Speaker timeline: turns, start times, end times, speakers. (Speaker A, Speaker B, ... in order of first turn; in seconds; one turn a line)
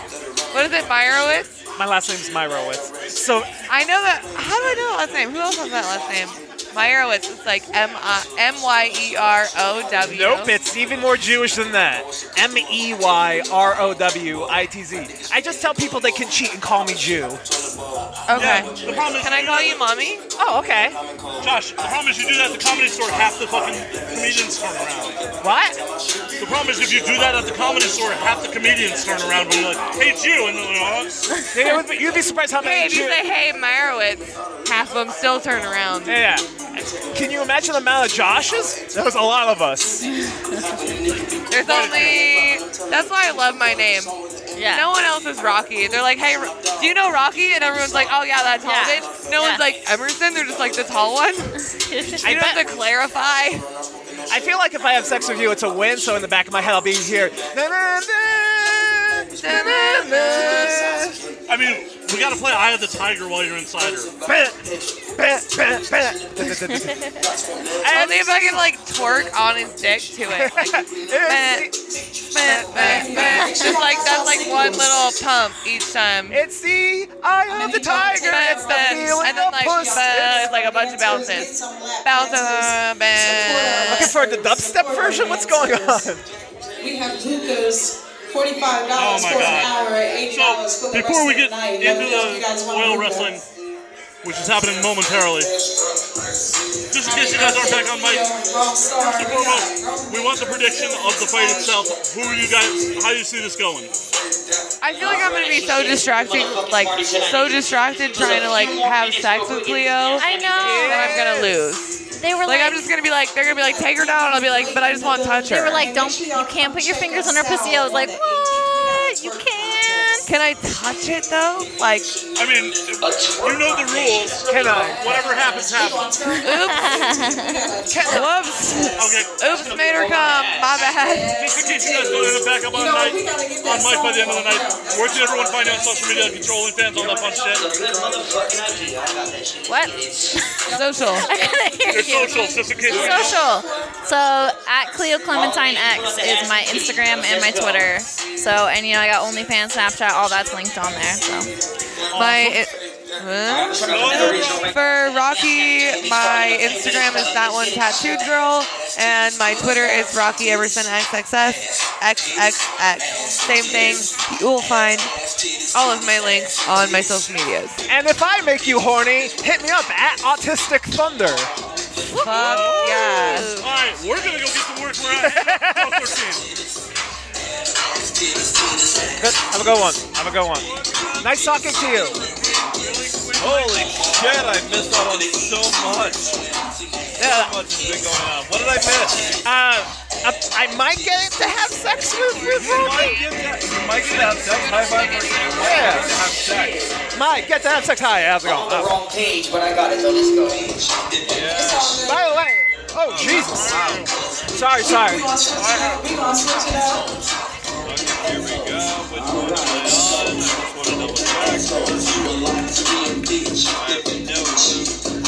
Speaker A: 0.5-1.6
Speaker B: 1.8-3.5
Speaker A: 3.7-10.6
Speaker B: 10.0-17.4
Speaker A: 18.3-20.2
Speaker C: 18.3-19.8
Speaker B: 20.4-21.0
Speaker C: 21.4-25.2
Speaker B: 25.4-25.8
Speaker C: 26.4-31.1
Speaker B: 31.5-33.2
Speaker A: 32.5-36.2
Speaker B: 36.0-40.0
Speaker A: 41.5-44.1
Speaker C: 41.6-42.2
Speaker D: 44.5-44.9
Speaker A: 44.7-51.5
Speaker D: 48.6-49.6
Speaker D: 51.9-52.2
Speaker A: 52.2-53.6
Speaker B: 52.2-52.6
Speaker B: 54.3-61.1
Speaker A: 59.4-61.0
Speaker C: 61.5-64.1
Speaker B: 64.2-64.6
Speaker B: 65.1-67.2
Speaker B: 67.8-68.6
Speaker A: 67.8-71.7
Speaker B: 70.3-71.7
Speaker A: 72.3-76.4
Speaker B: 72.4-73.5
Speaker E: 72.5-75.2
Speaker B: 76.3-80.5
Speaker E: 77.5-86.0
Speaker A: 77.9-81.5
Speaker A: 82.0-84.1
Speaker B: 83.8-86.2
Speaker E: 86.8-93.4
Speaker C: 88.9-93.4
Speaker C: 94.2-95.5
Speaker C: 96.9-98.3
Speaker E: 96.9-102.0
Speaker C: 99.0-103.9
Speaker A: 104.8-115.9
Speaker F: 105.0-111.0
Speaker D: 110.2-111.3
Speaker B: 110.6-111.5
Speaker D: 112.2-112.9
Speaker E: 113.5-120.3
Speaker D: 115.4-120.3
Speaker A: 120.2-122.2
Speaker C: 122.3-126.2
Speaker F: 123.0-124.9
Speaker B: 124.5-125.1
Speaker E: 124.5-128.9
Speaker D: 126.3-127.7
Speaker A: 126.4-127.0
Speaker B: 127.9-128.3
Speaker A: 128.0-131.3
Speaker C: 129.0-129.3
Speaker F: 129.4-130.9
Speaker E: 130.9-136.7
Speaker C: 131.3-137.7
Speaker F: 136.9-140.5
Speaker D: 139.7-140.4
Speaker E: 140.7-143.9
Speaker A: 140.7-141.6
Speaker D: 141.2-151.5
Speaker C: 141.9-143.4
Speaker F: 145.2-148.0
Speaker C: 152.1-152.6
Speaker A: 152.1-165.1
Speaker F: 153.4-158.3
Speaker C: 153.8-154.7
Speaker A: 165.7-167.8
Speaker B: 167.9-171.5
Speaker A: 172.1-173.7
Speaker D: 172.1-172.7
Speaker C: 172.2-176.4
Speaker D: 173.2-173.6
Speaker B: 175.2-176.2
Speaker B: 179.2-180.7
Speaker B: 181.2-182.2
Speaker C: 182.8-184.0
Speaker G: 183.4-186.4
Speaker B: 187.2-187.6
Speaker G: 187.2-189.4
Speaker B: 189.4-193.2
Speaker G: 192.6-196.8
Speaker A: 192.7-193.2
Speaker A: 194.0-195.5
Speaker F: 195.5-197.0
Speaker B: 195.6-196.1
Speaker B: 197.1-198.9
Speaker F: 198.4-200.9
Speaker G: 201.3-202.0
Speaker E: 201.4-202.3
Speaker B: 202.0-204.0
Speaker C: 203.1-204.1
Speaker B: 204.5-205.3
Speaker E: 204.7-207.2
Speaker C: 205.6-205.9
Speaker G: 207.8-211.9
Speaker G: 213.8-214.9